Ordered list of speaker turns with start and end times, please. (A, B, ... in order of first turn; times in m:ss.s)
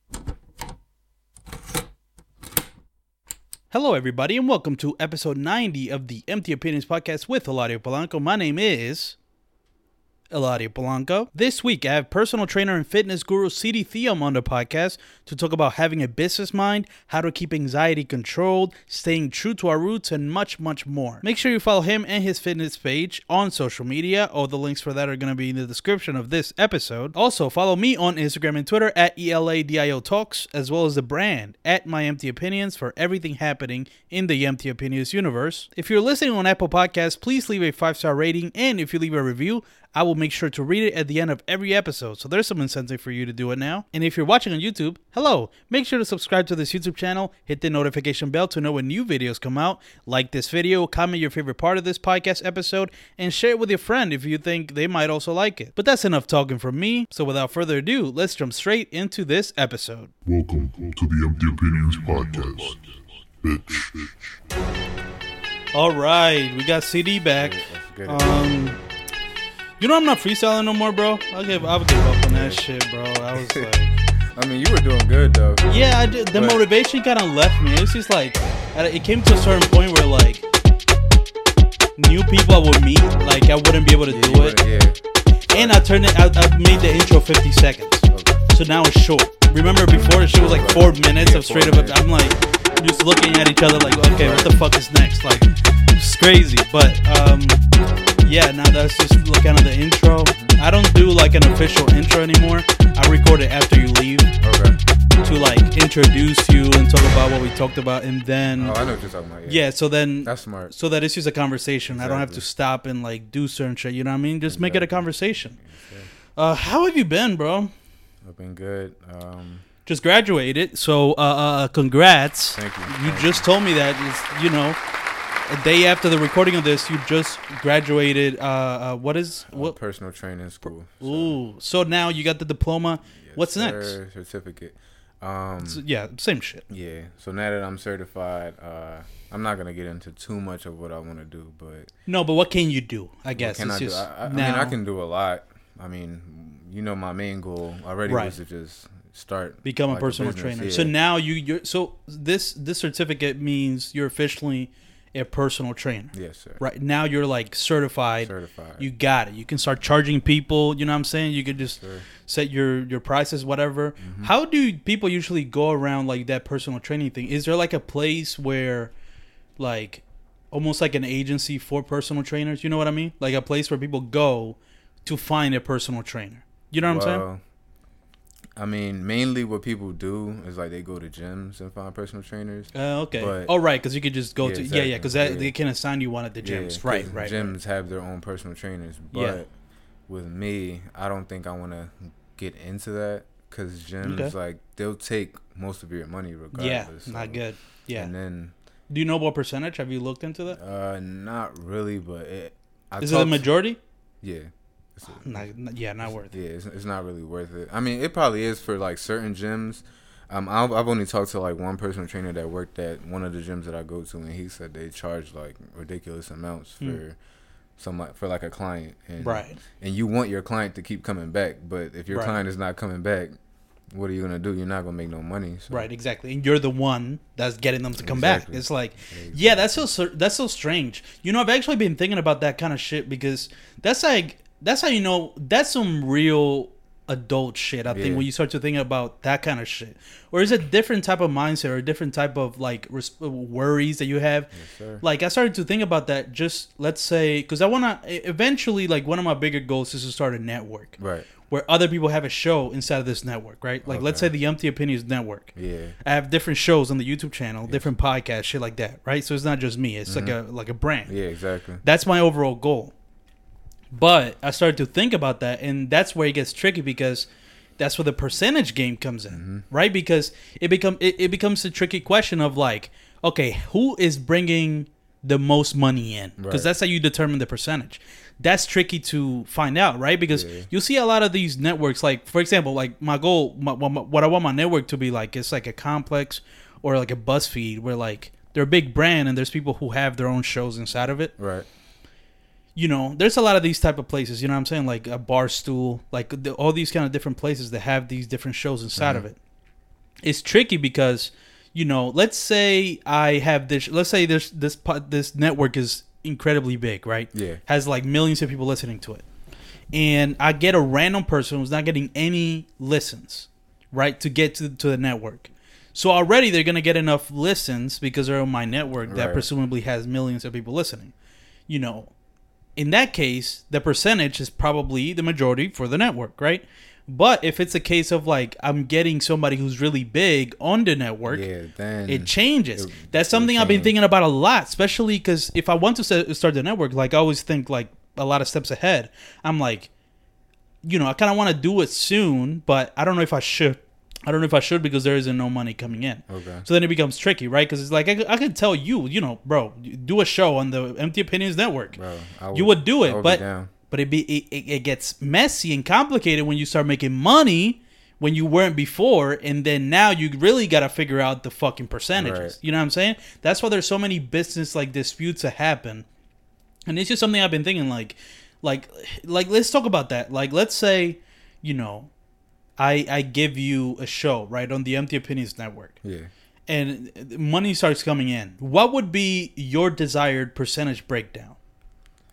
0:03.7-0:09.2 A
0:10.3-1:00.1 A
1:00.2-1:04.3 B
1:05.7-1:08.8 A
1:07.4-1:08.8 C
1:09.8-1:14.0 A
1:12.3-1:12.6 C
1:13.4-1:13.7 C
1:14.3-1:16.6 C
1:15.7-1:20.4 A
1:22.0-1:24.6 A
1:24.1-1:25.0 C
1:25.5-1:25.8 C
1:25.5-1:37.6 A
1:28.1-1:28.4 C
1:29.9-1:32.0 C
1:34.0-1:34.6 C
1:38.2-1:44.3 A
1:44.4-1:44.8 C
1:45.2-1:48.8 A
1:48.6-1:49.7 C
1:49.5-1:55.6 A
1:50.2-1:50.7 C
1:51.9-1:52.4 C
1:54.5-1:56.1 C
1:56.4-1:57.7 A
1:58.2-1:59.6 C
1:59.8-2:04.8 A
2:02.5-2:03.4 C
2:05.5-2:09.8 A
2:09.5-2:11.4 C
2:11.0-2:14.0 A
2:13.2-2:15.8 C
2:15.6-2:16.6 A
2:16.7-2:21.9 C
2:22.1-2:24.8 A
2:23.3-2:30.9 C
2:28.1-2:28.3 A
2:29.6-2:48.9 A
2:36.1-2:36.6 C
2:38.2-2:38.8 C
2:41.8-2:42.0 C
2:44.0-2:44.3 C
2:49.6-2:57.2 A
2:56.8-2:57.4 C
2:58.6-3:03.5 C
3:02.7-3:07.5 A
3:04.4-3:05.5 C
3:06.4-3:09.5 C
3:09.1-3:09.4 A
3:10.1-3:17.4 C
3:14.0-3:14.3 A
3:16.5-3:18.1 A
3:17.9-3:18.5 C
3:18.9-3:20.6 A
3:20.5-3:23.5 C
3:23.0-3:23.8 A
3:24.2-3:25.5 C
3:25.2-3:26.3 A
3:26.0-3:37.2 C
3:37.8-3:43.4 C
3:39.2-3:39.6 A
3:42.1-3:42.4 A
3:43.9-3:45.9 C
3:45.7-4:15.5 A
3:48.0-3:49.9 C
3:57.9-3:58.2 C
4:04.5-4:05.0 C
4:11.0-4:11.3 C
4:13.8-4:14.3 C
4:15.5-4:15.9 C
4:16.0-4:21.1 A
4:20.1-4:20.4 C
4:21.1-4:21.8 C
4:21.8-4:22.9 A
4:23.9-4:51.3 A
4:29.3-4:29.6 C
4:36.4-4:36.7 C
4:40.3-4:40.7 C
4:51.4-4:51.7 C
4:52.8-4:59.4 A
4:59.0-4:59.2 C
5:00.2-5:09.2 A
5:07.3-5:07.6 C
5:09.9-5:21.1 A
5:19.1-5:19.4 C
5:21.7-5:22.1 A
5:22.8-5:31.5 A
5:31.3-5:33.9 C
5:32.1-5:39.9 A
5:40.8-5:52.0 A
5:46.3-5:46.6 C
5:51.9-5:53.7 C
5:52.5-6:06.0 A
6:02.2-6:02.6 C
6:06.9-6:12.1 A
6:12.8-6:16.0 A
6:16.0-6:16.3 C
6:16.7-6:21.6 A